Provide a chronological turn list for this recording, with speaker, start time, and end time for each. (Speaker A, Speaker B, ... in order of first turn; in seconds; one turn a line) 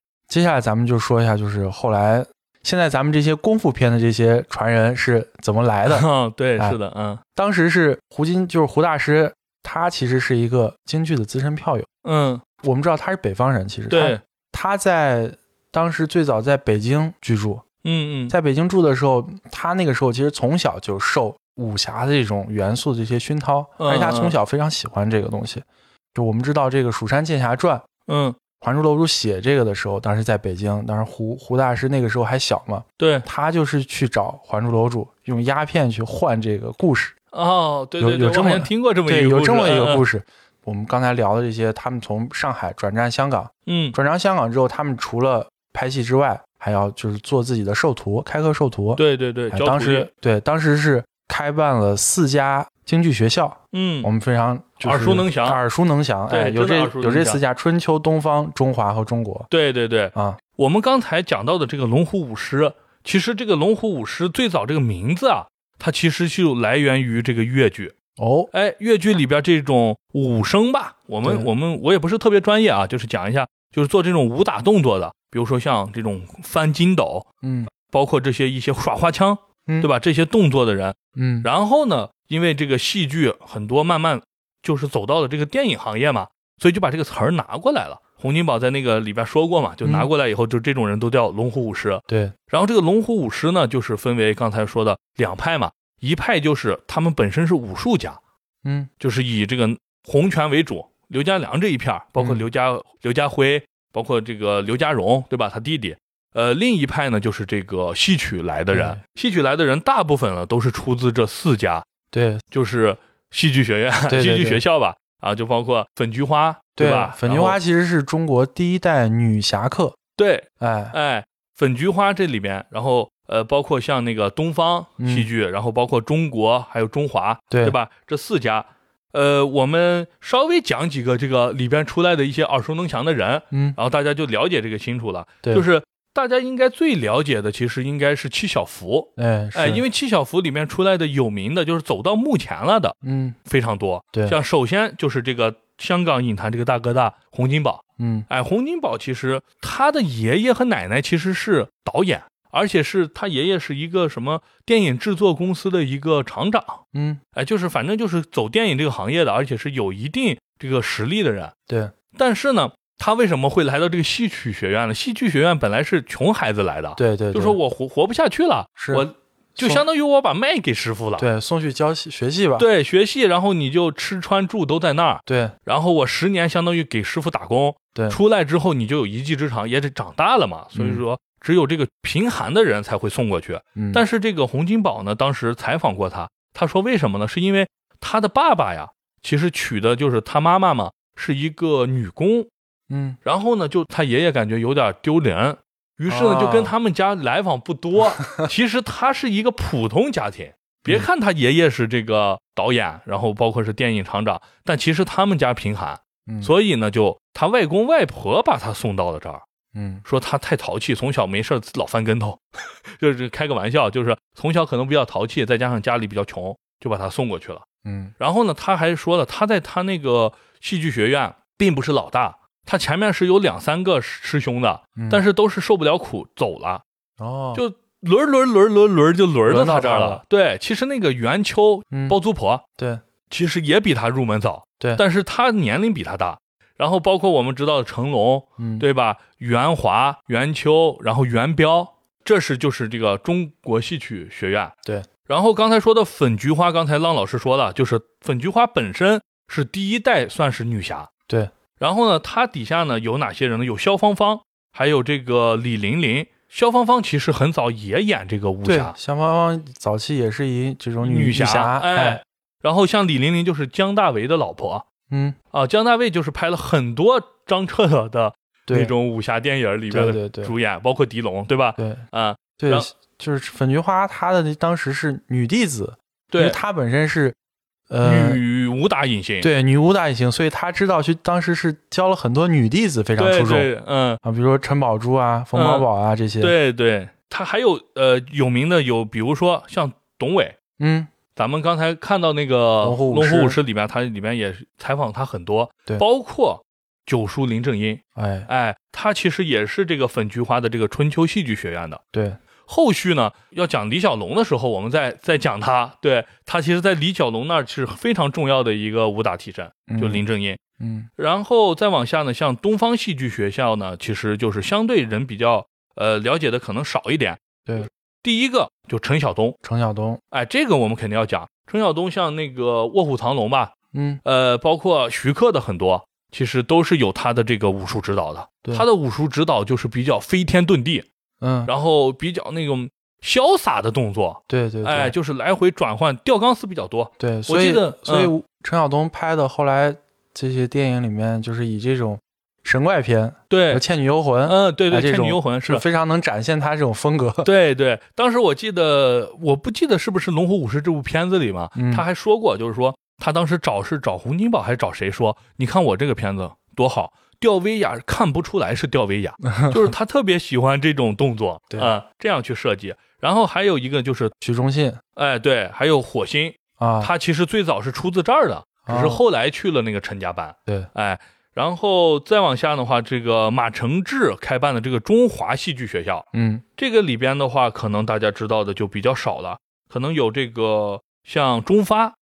Speaker A: 0.3-6.1
Speaker B: 5.8-7.2
Speaker A: 7.3-11.9
Speaker B: 12.0-12.4
Speaker A: 12.6-17.6
Speaker B: 13.9-14.2
Speaker B: 17.8-18.3
Speaker A: 18.3-27.8
Speaker B: 23.8-24.4
Speaker B: 28.1-28.4
Speaker A: 28.6-37.1
Speaker B: 33.0-33.2
Speaker B: 37.3-40.0
Speaker A: 38.0-59.5
Speaker B: 43.7-44.0
Speaker B: 49.0-50.1
Speaker B: 53.7-54.1
Speaker B: 54.8-55.6
Speaker B: 56.3-57.4
Speaker B: 59.5-67.9
Speaker A: 60.1-60.4
Speaker A: 68.2-68.5
Speaker B: 68.5-77.2
Speaker A: 77.4-77.7
Speaker B: 77.8-98.2
Speaker A: 81.2-81.5
Speaker A: 89.8-90.1
Speaker A: 92.1-92.3
Speaker A: 98.6-98.9
Speaker B: 99.0-111.9
Speaker A: 102.2-102.4
Speaker A: 108.7-109.0
Speaker A: 112.1-112.4
Speaker B: 112.5-117.6
Speaker A: 114.1-114.6
Speaker A: 116.8-120.0
Speaker B: 120.2-156.8
Speaker A: 120.6-120.9
Speaker A: 125.0-125.3
Speaker A: 127.5-127.7
Speaker A: 133.5-133.8
Speaker A: 139.2-139.8
Speaker A: 143.0-143.4
Speaker A: 148.0-148.3
Speaker A: 156.9-157.2
Speaker B: 157.3-161.5
Speaker A: 161.7-161.9
Speaker B: 162.1-171.3
Speaker A: 167.0-167.6
Speaker A: 168.8-169.8
Speaker A: 171.2-172.7
Speaker B: 172.6-192.5
Speaker A: 175.3-175.5
Speaker A: 180.7-181.0
Speaker A: 183.7-184.0
Speaker A: 192.9-193.2
Speaker B: 193.2-209.4
Speaker A: 196.1-196.7
Speaker A: 209.7-210.0
Speaker B: 210.0-217.6
Speaker A: 217.8-218.1
Speaker B: 218.2-226.8
Speaker A: 224.9-225.2
Speaker A: 227.2-227.6
Speaker B: 227.5-232.6
Speaker A: 229.5-230.2
Speaker A: 231.9-232.2
Speaker A: 232.8-233.0
Speaker B: 233.3-244.7
Speaker A: 238.6-238.8
Speaker B: 245.2-251.1
Speaker B: 251.8-258.9
Speaker A: 258.6-262.2
Speaker B: 261.0-264.8
Speaker A: 265.1-265.4
Speaker B: 265.5-272.9
Speaker A: 268.6-268.9
Speaker A: 269.9-270.5
Speaker A: 272.6-277.4
Speaker B: 276.3-276.6
Speaker A: 277.9-278.4
Speaker B: 278.0-279.5
Speaker A: 279.4-283.7
Speaker B: 283.2-284.2
Speaker A: 284.2-286.5
Speaker B: 285.5-285.9
Speaker B: 286.4-290.5
Speaker A: 290.8-291.1
Speaker B: 291.4-302.0
Speaker A: 292.8-293.6
Speaker A: 298.1-298.5
Speaker A: 302.1-302.4
Speaker B: 302.6-310.6
Speaker A: 309.9-310.2
Speaker A: 310.8-311.1
Speaker B: 311.2-319.6
Speaker A: 319.6-320.2
Speaker B: 320.3-323.7
Speaker A: 323.9-324.2
Speaker B: 324.2-331.1
Speaker A: 331.4-331.7
Speaker B: 331.6-338.3
Speaker A: 334.5-335.1
Speaker A: 337.2-347.5
Speaker B: 343.5-343.8
Speaker B: 344.4-345.8
Speaker B: 347.4-364.3
Speaker A: 351.8-352.0
Speaker A: 359.5-359.8
Speaker A: 364.4-365.0
Speaker B: 365.1-376.2
Speaker A: 366.8-367.1
Speaker A: 368.9-369.2
Speaker A: 376.3-376.6
Speaker B: 376.8-382.1